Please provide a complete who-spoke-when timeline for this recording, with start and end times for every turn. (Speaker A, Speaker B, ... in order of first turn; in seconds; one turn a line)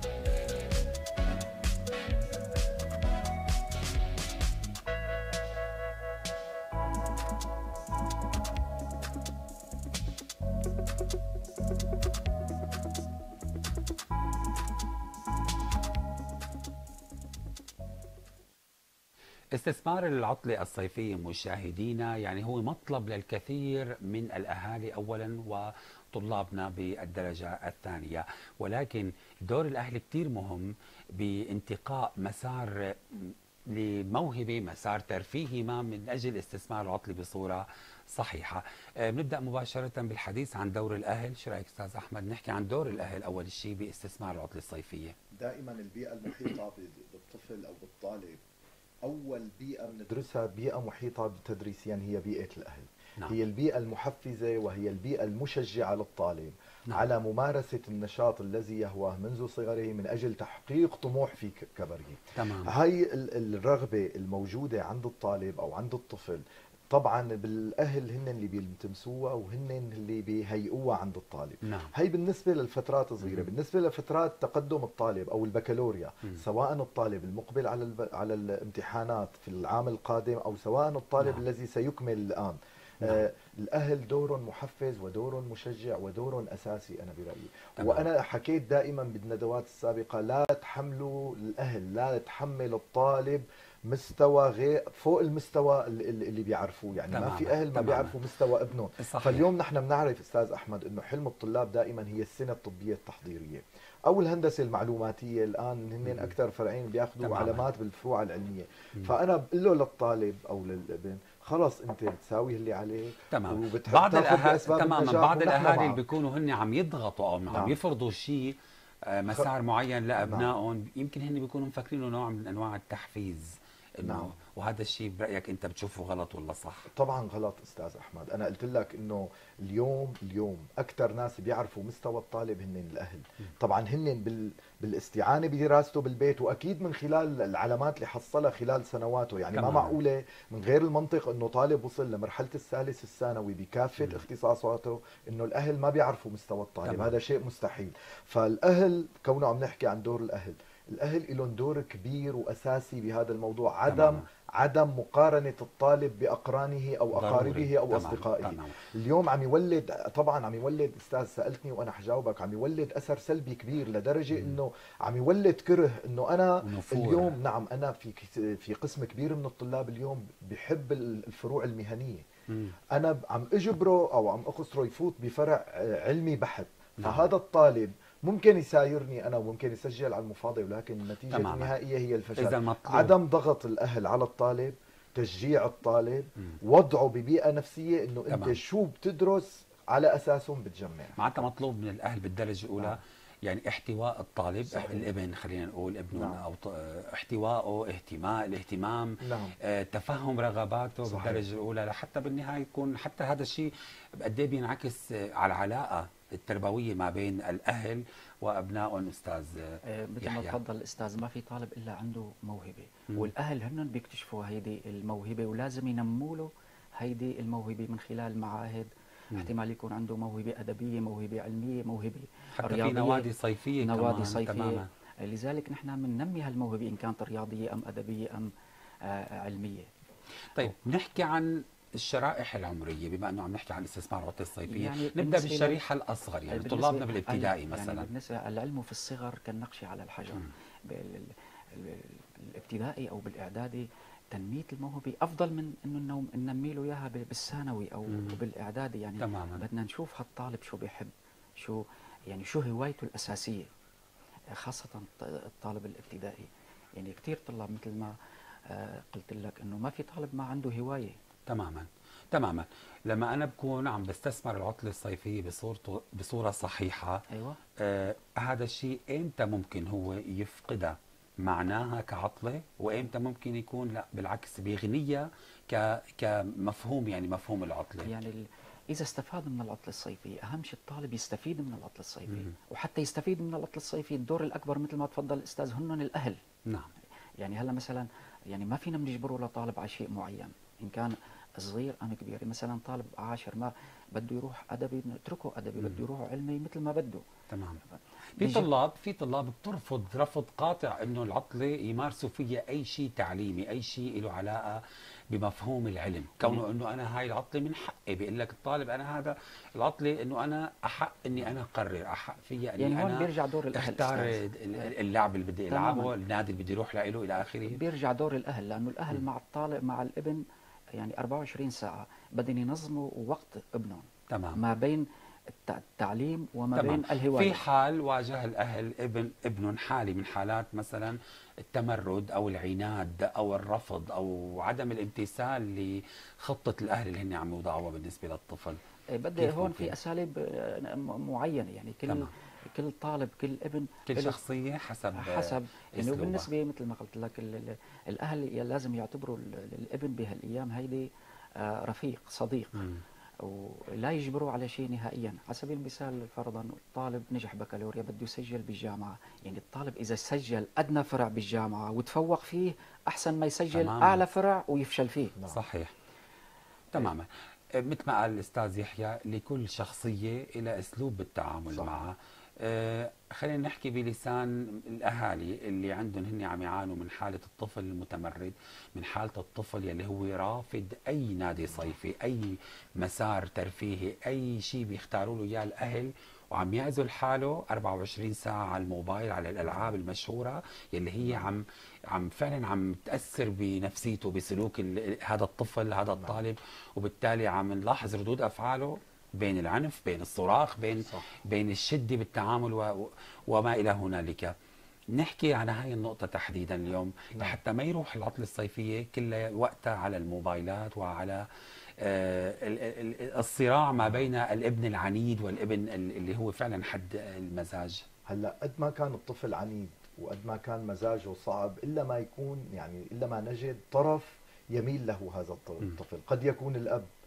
Speaker A: 19.5-45.1
Speaker B: 45.3-48.4
Speaker B: 49.0-116.0
Speaker A: 62.4-62.7
Speaker A: 71.6-71.9
Speaker A: 73.2-73.5
Speaker A: 87.8-88.1
Speaker A: 97.1-98.2
Speaker A: 99.0-99.5
Speaker A: 106.1-106.3
Speaker A: 107.2-107.6
Speaker A: 113.3-126.9
Speaker B: 117.5-117.8
Speaker B: 120.2-120.5
Speaker B: 124.0-124.3
Speaker B: 126.9-172.2
Speaker A: 139.5-139.9
Speaker A: 146.8-147.1
Speaker A: 153.9-154.2
Speaker A: 157.1-158.8
Speaker A: 166.6-167.4
Speaker A: 172.5-172.8
Speaker B: 172.9-191.5
Speaker A: 177.0-177.3
Speaker A: 181.3-181.7
Speaker A: 182.3-183.1
Speaker A: 188.3-188.6
Speaker A: 191.2-210.6
Speaker B: 194.7-195.1
Speaker B: 196.1-196.4
Speaker B: 199.2-199.6
Speaker B: 201.0-201.5
Speaker C: 209.8-228.5
Speaker A: 222.6-224.9
Speaker C: 229.0-229.9
Speaker A: 230.5-238.1
Speaker C: 234.7-235.8
Speaker C: 236.5-253.7
Speaker A: 248.1-248.4
Speaker A: 249.2-249.6
Speaker C: 254.5-258.1
Speaker C: 258.7-261.2
Speaker A: 261.5-267.2
Speaker C: 267.3-267.6
Speaker A: 267.8-278.2
Speaker C: 278.0-286.4
Speaker A: 282.3-282.5
Speaker C: 287.4-297.2
Speaker A: 295.8-296.0
Speaker A: 297.5-297.8
Speaker A: 298.4-317.8
Speaker C: 298.4-298.7
Speaker C: 312.8-314.9
Speaker C: 315.7-316.1
Speaker C: 317.6-320.4
Speaker C: 320.9-327.6
Speaker A: 324.3-324.6
Speaker A: 326.7-338.8
Speaker C: 339.1-344.4
Speaker A: 339.4-339.9
Speaker A: 344.1-346.5
Speaker C: 345.1-352.9
Speaker A: 352.7-353.0
Speaker C: 353.4-365.4
Speaker A: 363.7-364.2
Speaker A: 365.5-365.9
Speaker A: 366.9-404.5
Speaker B: 371.7-372.0
Speaker B: 389.6-390.0
Speaker B: 391.2-391.5
Speaker B: 396.1-396.4
Speaker A: 405.1-411.4
Speaker A: 412.0-418.1
Speaker B: 418.3-427.1